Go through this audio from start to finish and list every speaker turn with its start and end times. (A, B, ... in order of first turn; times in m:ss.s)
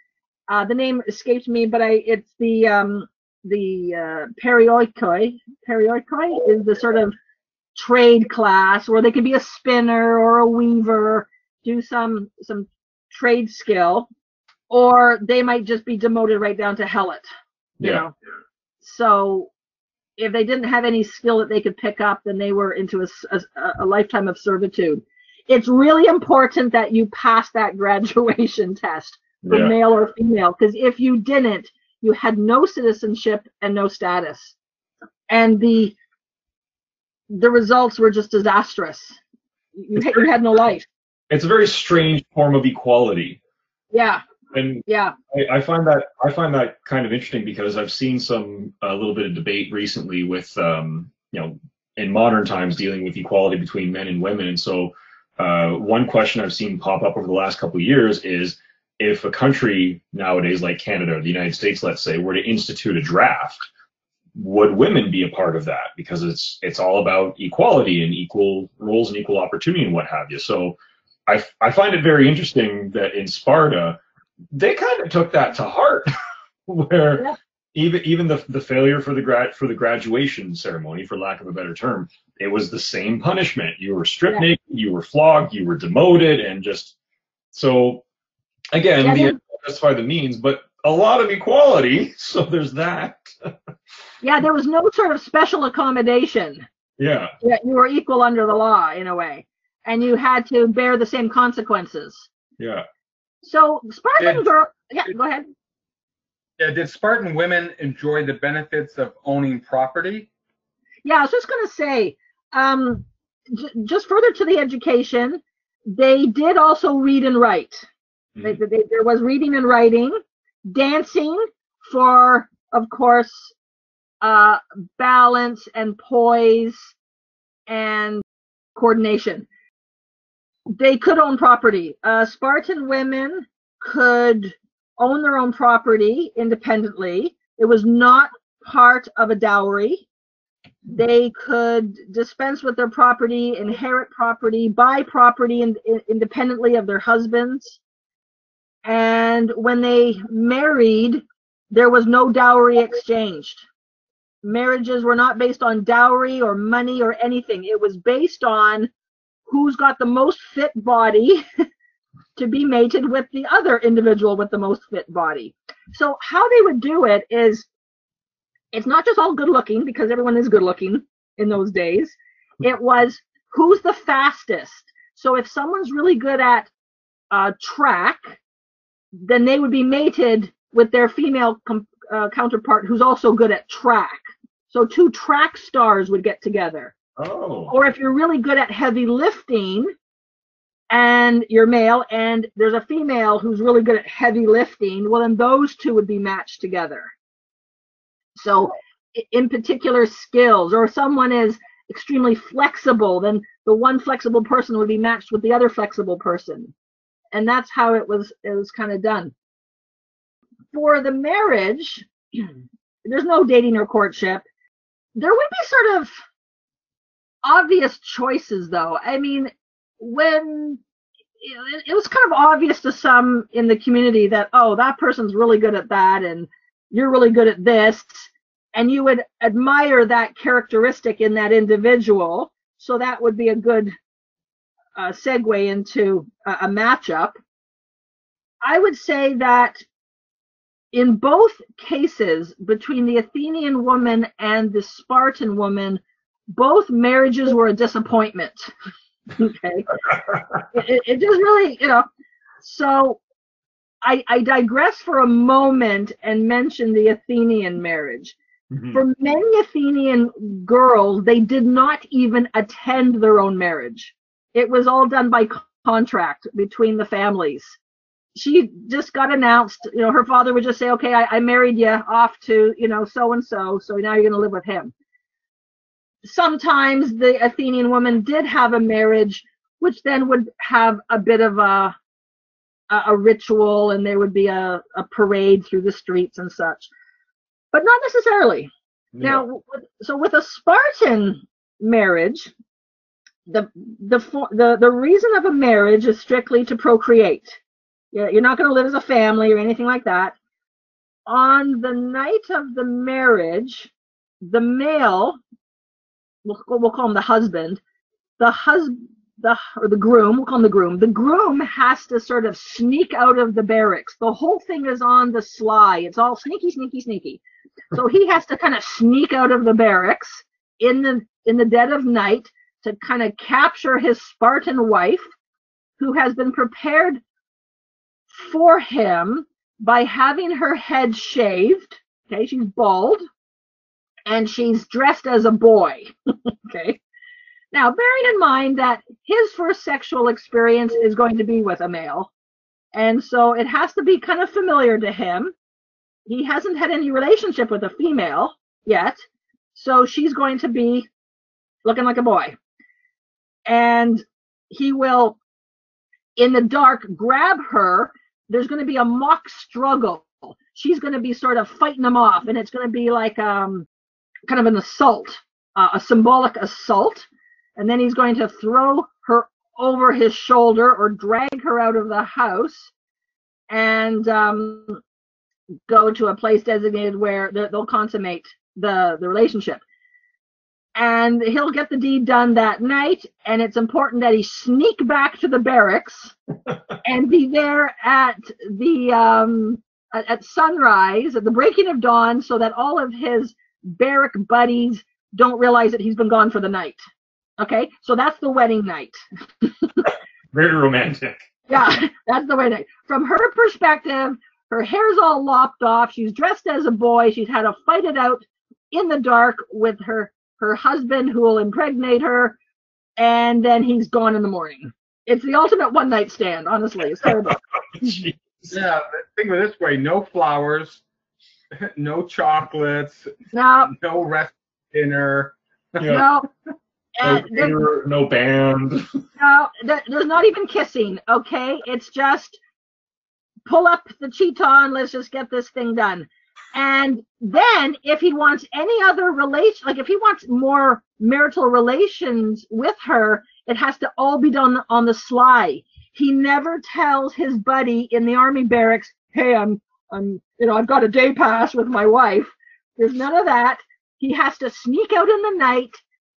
0:00.5-0:07.2 A
0:07.8-0:14.1 A
0:14.7-0:17.3 A
0:17.8-0:18.1 B
0:17.8-0:18.1 A
0:18.8-0:19.5 A
0:20.2-0:34.6 A
0:29.4-0:29.8 B
0:35.3-0:36.0 A
0:37.3-0:39.2 A
0:39.8-0:40.9 A
0:40.0-0:40.3 B
0:41.3-0:43.4 B
0:43.9-0:44.2 A
0:44.5-1:03.7 B
0:44.9-0:45.1 A
1:04.4-1:10.8 B
1:11.3-1:14.0 B
1:14.5-1:16.1 B
1:16.7-1:27.0 B
1:27.5-1:28.0 B
1:28.7-1:33.5 B
1:29.0-1:29.4 A
1:34.2-1:36.6 A
1:37.0-1:37.3 B
1:37.4-1:42.3 A
1:42.6-1:42.8 B
1:43.4-1:45.5 A
1:44.2-1:44.5 C
1:46.6-1:50.3 C
1:51.0-1:55.4 A
1:55.9-1:57.9 A
1:58.4-2:03.5 A
2:04.2-2:06.9 A
2:07.7-2:08.2 A
2:08.8-2:09.5 A
2:10.7-2:20.1 A
2:20.9-2:27.8 A
2:28.8-2:33.7 A
2:34.4-2:38.9 A
2:39.5-2:41.4 A
2:42.4-2:47.7 A
2:48.7-2:56.7 A
2:57.3-2:58.4 A
2:59.2-3:06.9 A
3:07.2-3:07.7 B
3:07.7-3:09.9 A
3:10.9-3:17.1 A
3:18.4-3:26.7 A
3:27.3-3:29.3 A
3:30.7-3:32.5 A
3:33.0-3:34.4 A
3:35.2-3:36.1 A
3:37.4-3:40.8 A
3:41.4-3:53.9 A
3:55.0-3:57.4 A
3:58.6-3:59.8 A
4:00.9-4:06.0 A
4:06.6-4:08.7 A
4:09.4-4:10.0 A
4:10.7-4:12.1 A
4:12.6-4:13.2 A
4:14.0-4:18.4 A
4:18.7-4:19.0 B
4:18.9-4:27.8 A
4:28.4-4:34.9 A
4:36.2-4:42.0 A
4:42.9-4:46.9 A
4:47.7-4:48.7 A
4:49.1-4:49.4 B
4:49.2-4:52.5 A
4:53.5-4:57.6 A
4:58.1-5:00.4 A
5:01.3-5:03.9 A
5:04.4-5:05.4 A
5:06.4-5:07.8 A
5:08.4-5:17.4 A
5:17.9-5:25.3 A
5:26.0-5:27.2 A
5:28.3-5:33.2 A
5:34.3-5:37.0 A
5:37.7-5:42.3 A
5:42.9-5:45.5 A
5:46.3-5:49.2 A
5:49.7-5:51.1 A
5:51.8-5:52.6 A
5:53.7-5:55.4 A
5:56.4-6:03.9 A
6:04.5-6:12.9 A
6:13.7-6:15.0 A
6:15.9-6:19.8 A
6:21.0-6:26.3 A
6:27.0-6:37.0 A
6:37.6-6:40.0 A
6:40.5-6:41.5 B
6:41.7-6:52.6 A
6:53.2-6:58.2 A
6:58.0-6:58.7 B
6:58.7-7:01.0 C
7:01.8-7:03.3 C
7:03.5-7:03.9 A
7:03.9-7:06.2 C
7:06.0-7:06.3 B
7:06.1-7:06.5 A
7:07.2-7:07.8 A
7:07.2-7:09.2 B
7:09.4-7:12.6 A
7:13.7-7:36.0 A